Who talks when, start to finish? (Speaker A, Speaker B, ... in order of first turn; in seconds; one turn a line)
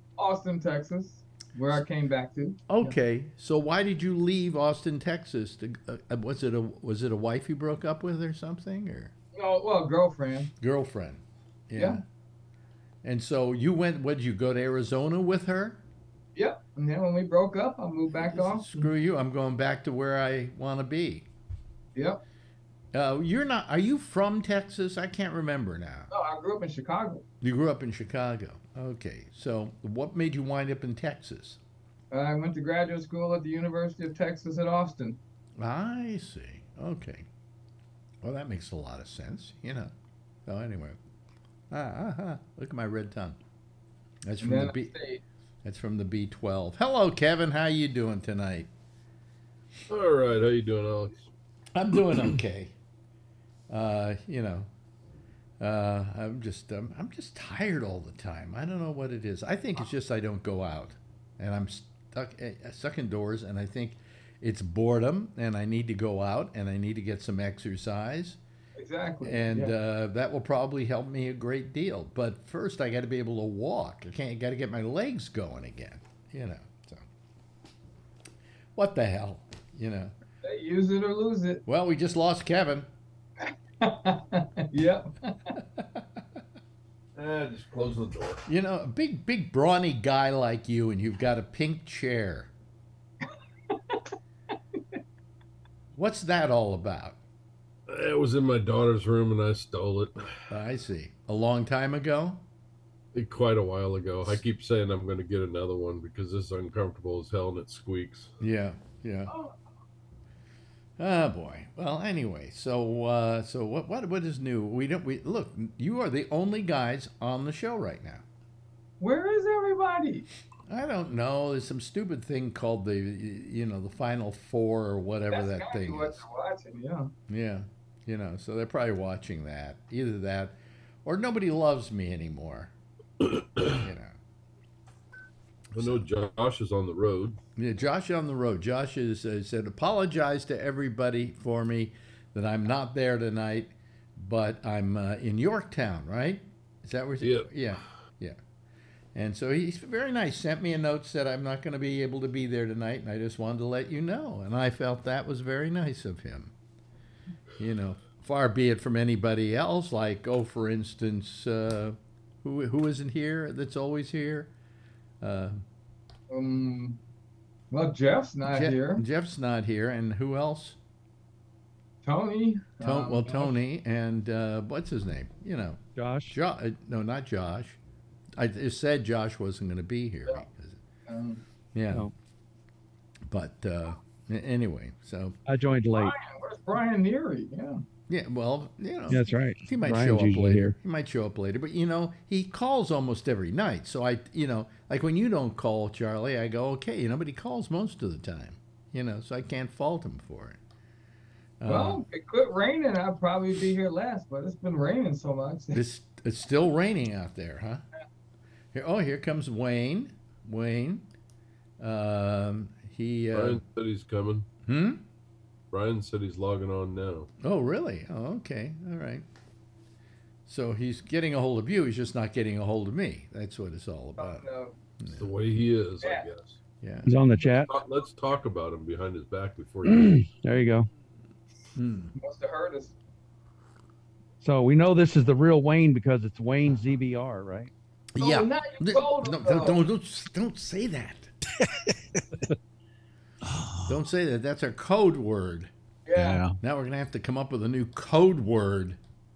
Speaker A: 0.2-3.0
Speaker B: 2.7-9.1
Speaker A: 9.3-10.5
Speaker B: 10.6-12.0
Speaker A: 11.8-12.0
Speaker B: 13.0-15.8
Speaker A: 16.4-18.9
Speaker B: 18.3-21.3
Speaker A: 21.9-22.2
Speaker B: 22.9-26.1
Speaker A: 26.1-27.2
Speaker B: 27.4-31.6
Speaker A: 32.1-35.2
Speaker B: 35.6-37.3
Speaker B: 38.2-39.9
Speaker B: 40.5-41.0
Speaker B: 41.7-43.4
Speaker B: 44.2-45.0
Speaker A: 44.4-45.2
Speaker B: 45.6-48.7
Speaker C: 49.9-51.3
Speaker B: 51.7-52.8
Speaker B: 53.7-54.7
Speaker B: 55.6-68.4
Speaker A: 68.8-69.7
Speaker B: 69.2-77.1
Speaker B: 78.8-80.1
Speaker A: 80.4-81.6
Speaker B: 81.7-82.9
Speaker A: 83.5-85.4
Speaker B: 85.5-86.2
Speaker C: 87.2-88.4
Speaker B: 88.5-92.5
Speaker A: 93.3-94.0
Speaker B: 95.9-97.2
Speaker C: 97.9-100.3
Speaker B: 100.5-102.4
Speaker C: 103.1-108.3
Speaker B: 108.4-109.3
Speaker A: 109.3-109.5
Speaker B: 111.0-118.2
Speaker A: 119.0-120.3
Speaker B: 120.7-126.2
Speaker A: 125.3-127.1
Speaker B: 127.3-132.7
Speaker B: 133.7-134.2
Speaker C: 135.7-137.4
Speaker B: 137.6-148.4
Speaker C: 147.2-147.5
Speaker B: 149.1-156.5
Speaker B: 157.6-164.5
Speaker B: 165.2-165.6
Speaker A: 166.3-167.0
Speaker A: 167.7-169.0
Speaker B: 168.5-170.8
Speaker A: 172.0-173.6
Speaker B: 172.8-177.8
Speaker D: 176.0-176.4
Speaker B: 178.4-180.8
Speaker A: 181.1-181.4
Speaker B: 181.7-182.1
Speaker B: 183.3-185.4
Speaker D: 185.5-186.2
Speaker A: 185.9-187.8
Speaker B: 188.1-200.6
Speaker D: 189.1-190.8
Speaker B: 201.6-202.0
Speaker A: 201.7-205.8
Speaker B: 205.7-207.8
Speaker B: 208.7-211.1
Speaker B: 211.8-213.6
Speaker C: 213.3-214.5
Speaker B: 214.7-215.0
Speaker C: 215.7-217.3
Speaker B: 217.4-219.2
Speaker B: 220.5-224.5
Speaker A: 224.2-224.8
Speaker B: 225.0-225.3
Speaker C: 225.1-226.6
Speaker B: 226.8-227.1
Speaker D: 227.1-227.7
Speaker C: 227.5-230.3
Speaker D: 229.9-230.9
Speaker B: 231.8-232.1
Speaker A: 232.2-233.0
Speaker D: 234.4-237.7
Speaker B: 238.2-241.3
Speaker A: 238.2-239.8
Speaker B: 243.9-245.7
Speaker A: 246.1-246.5
Speaker B: 246.5-249.0